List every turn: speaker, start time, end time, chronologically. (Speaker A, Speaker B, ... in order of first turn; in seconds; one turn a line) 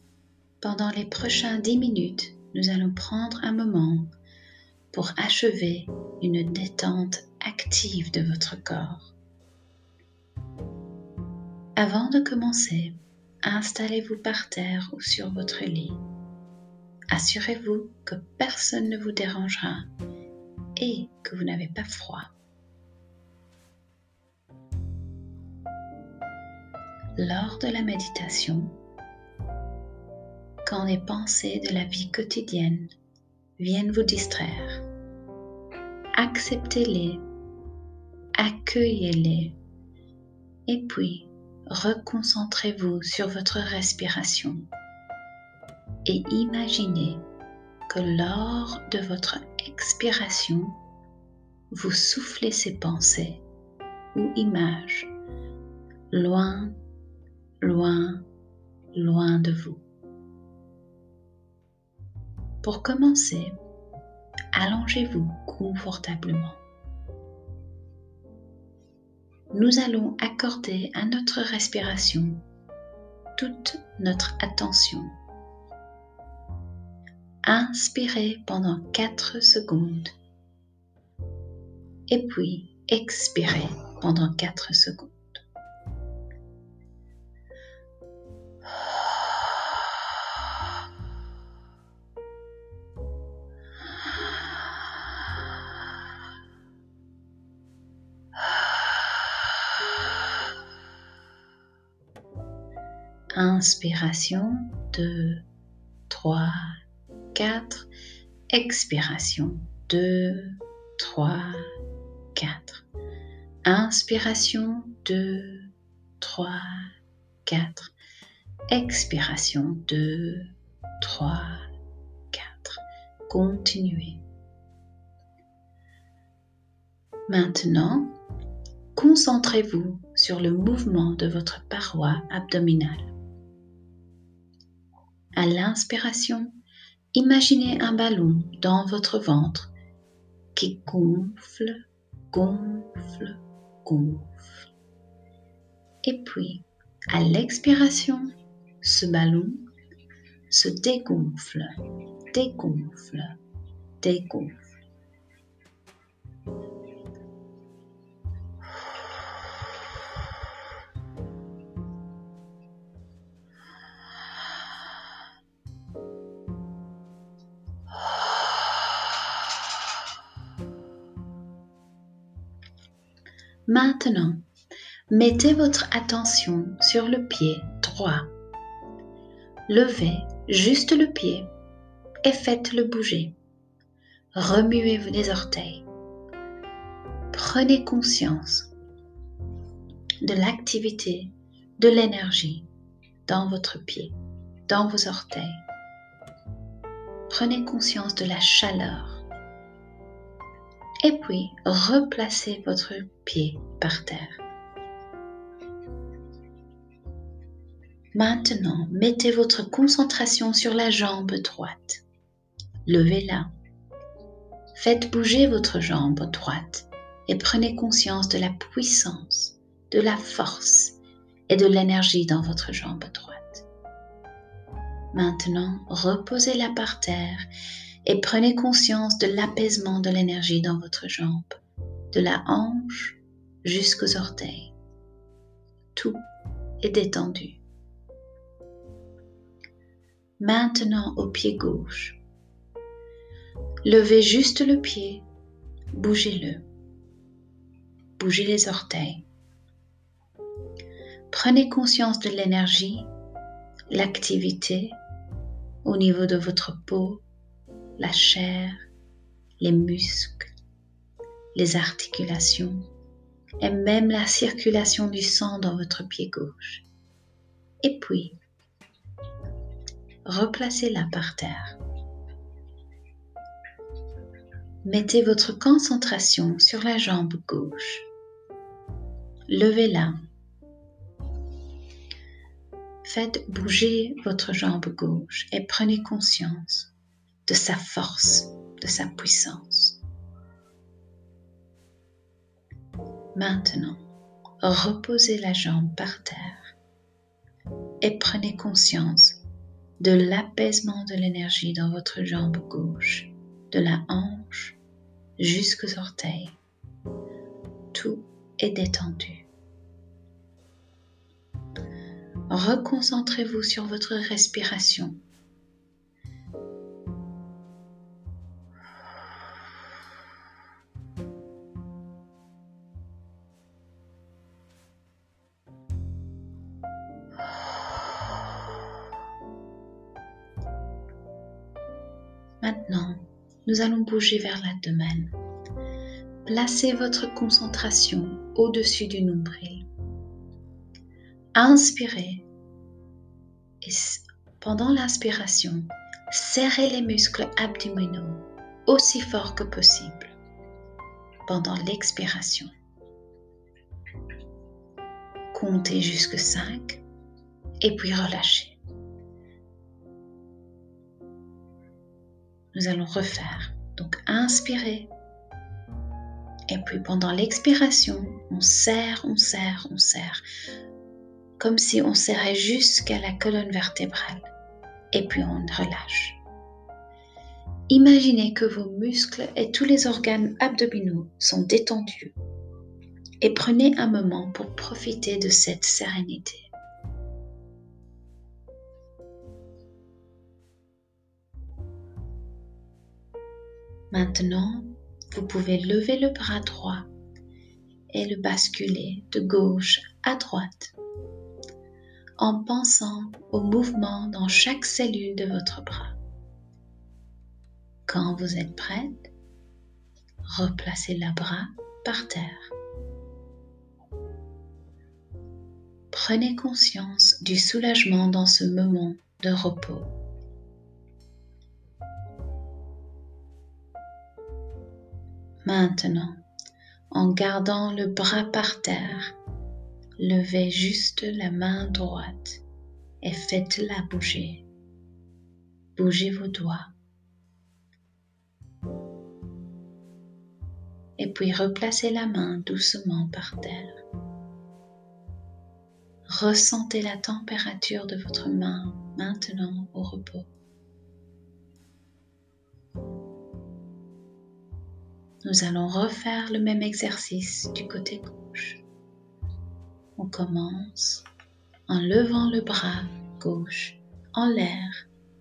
Speaker A: 0.6-4.1
Speaker A: 4.9-9.1
Speaker A: 11.8-16.0
Speaker A: 17.1-19.9
Speaker A: 20.8-22.3
Speaker A: 27.2-28.8
Speaker A: 30.6-32.9
Speaker A: 33.6-34.9
Speaker A: 36.2-37.3
Speaker A: 38.4-39.6
Speaker A: 40.7-44.7
Speaker A: 46.0-47.2
Speaker A: 47.9-50.8
Speaker A: 51.7-53.4
Speaker A: 54.1-55.1
Speaker A: 56.1-56.8
Speaker A: 57.6-58.2
Speaker A: 58.9-59.8
Speaker A: 62.6-63.6
Speaker A: 64.5-66.6
Speaker A: 69.5-72.4
Speaker A: 73.4-75.2
Speaker A: 77.5-80.1
Speaker A: 82.1-85.4
Speaker A: 103.3-105.5
Speaker A: 106.1-106.8
Speaker A: 107.3-107.9
Speaker A: 108.5-111.7
Speaker A: 112.3-112.8
Speaker A: 113.7-116.9
Speaker A: 117.5-117.9
Speaker A: 118.7-121.7
Speaker A: 122.3-124.2
Speaker A: 127.3-128.2
Speaker A: 128.9-133.1
Speaker A: 135.4-136.6
Speaker A: 137.1-139.7
Speaker A: 140.6-144.7
Speaker A: 146.0-149.7
Speaker A: 150.5-151.8
Speaker A: 152.3-153.4
Speaker A: 154.0-154.6
Speaker A: 173.7-174.4
Speaker A: 175.1-178.3
Speaker A: 179.7-181.5
Speaker A: 182.2-183.4
Speaker A: 184.3-185.9
Speaker A: 187.3-188.7
Speaker A: 190.2-192.7
Speaker A: 193.3-194.2
Speaker A: 194.7-195.6
Speaker A: 197.3-199.2
Speaker A: 201.0-204.4
Speaker A: 208.1-212.0
Speaker A: 212.8-213.5
Speaker A: 214.8-221.0
Speaker A: 221.5-223.7
Speaker A: 225.1-227.5
Speaker A: 228.1-231.6
Speaker A: 232.1-234.7
Speaker A: 235.9-236.2
Speaker A: 236.8-237.6
Speaker A: 240.4-242.2
Speaker A: 243.8-245.3
Speaker A: 245.9-246.7
Speaker A: 248.2-249.3
Speaker A: 251.3-253.1
Speaker A: 253.9-255.0
Speaker A: 255.8-257.2
Speaker A: 258.0-258.9
Speaker A: 259.6-260.5
Speaker A: 261.6-262.9
Speaker A: 263.6-266.9
Speaker A: 267.8-268.4
Speaker A: 270.2-271.8
Speaker A: 274.8-278.1
Speaker A: 279.5-280.2
Speaker A: 283.0-286.9
Speaker A: 287.5-290.0
Speaker A: 293.4-294.0
Speaker A: 294.6-296.7
Speaker A: 298.0-299.4
Speaker A: 300.0-304.8
Speaker A: 305.4-306.6
Speaker A: 307.9-309.5
Speaker A: 312.5-315.2
Speaker A: 332.6-335.4
Speaker A: 336.4-339.9
Speaker A: 341.6-342.5
Speaker A: 343.8-350.4
Speaker A: 351.5-352.7
Speaker A: 355.5-357.0
Speaker A: 357.8-358.8
Speaker A: 362.7-365.1
Speaker A: 366.7-370.4
Speaker A: 371.6-374.5
Speaker A: 375.1-376.4
Speaker A: 377.9-382.4
Speaker A: 383.4-386.7
Speaker A: 394.1-397.1
Speaker A: 398.1-400.9
Speaker A: 402.4-406.2
Speaker A: 408.1-409.3
Speaker A: 410.5-412.7
Speaker A: 416.1-420.1
Speaker A: 425.6-426.4
Speaker A: 427.1-429.4
Speaker A: 430.2-432.6
Speaker A: 433.2-434.6
Speaker A: 436.0-436.9
Speaker A: 441.2-444.0
Speaker A: 446.3-450.5
Speaker A: 455.4-458.9
Speaker A: 460.2-461.3
Speaker A: 461.9-465.1